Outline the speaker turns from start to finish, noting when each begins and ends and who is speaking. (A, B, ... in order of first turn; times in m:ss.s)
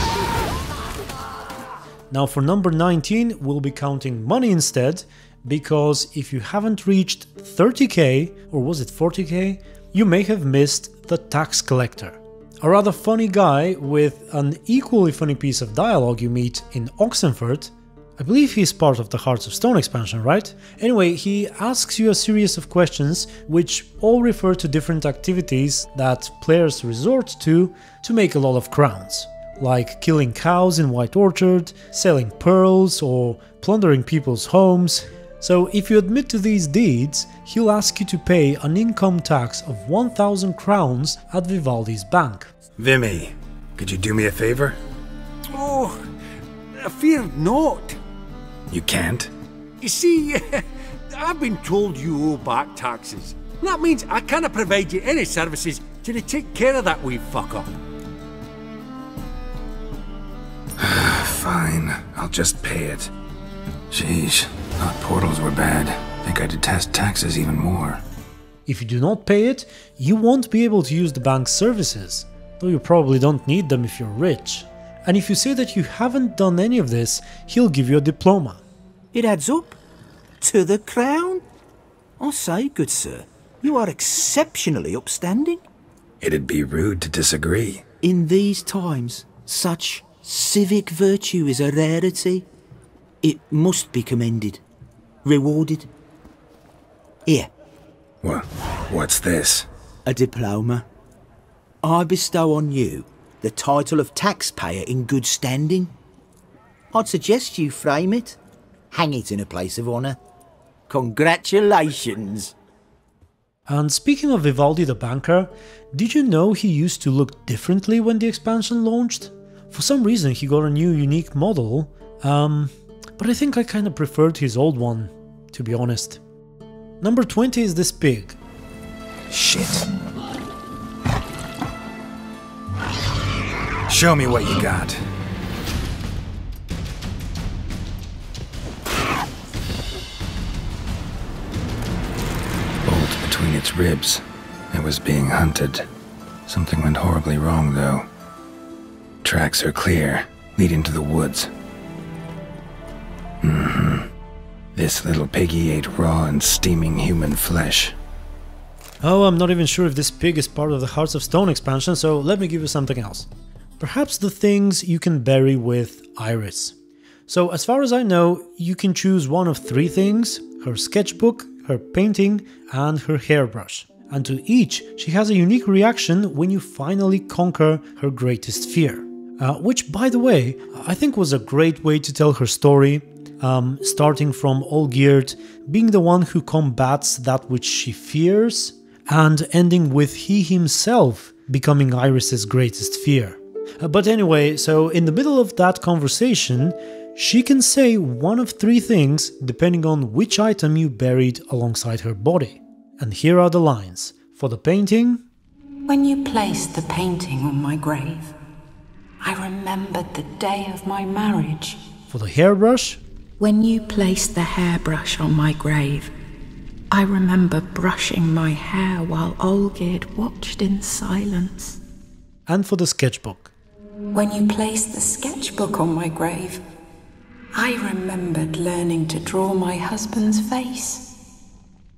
0:02.1-0:42.5 A
0:42.8-0:44.8 B
0:45.5-0:46.0 C
0:46.8-0:48.0 C
0:48.7-0:49.3 B
0:49.8-0:57.7 C
1:00.8-1:03.1 B
1:03.9-1:08.0 B
1:08.6-1:18.6 A
1:19.1-1:19.8 D
1:20.4-1:21.4 D
1:22.2-1:25.6 D
1:26.2-1:27.8 B
1:28.0-1:32.5 D
1:33.2-1:34.6 D
1:35.2-1:35.9 D
1:38.2-1:39.7 B
1:40.0-1:40.8 D
1:41.8-1:45.9 D
1:46.9-1:48.4 D
1:48.9-1:50.2 D
1:50.9-1:52.5 D
1:53.7-2:06.2 A
2:07.0-2:08.4 A
2:09.3-2:09.8 B
2:13.9-2:15.0 B
2:22.8-2:25.9 B
2:26.5-2:28.1 B
2:29.2-2:31.5 B
2:33.4-2:34.1 B
2:34.7-2:38.0 B
2:39.0-2:43.3 A
2:43.8-2:46.7 A
2:47.3-3:25.2 A
3:25.9-3:28.3 E
3:29.2-3:31.8 E
3:32.1-3:33.0 A
3:33.4-3:36.1 E
3:36.9-3:41.8 E
3:42.5-3:43.5 A
3:44.1-3:46.6 E
3:47.5-3:51.1 E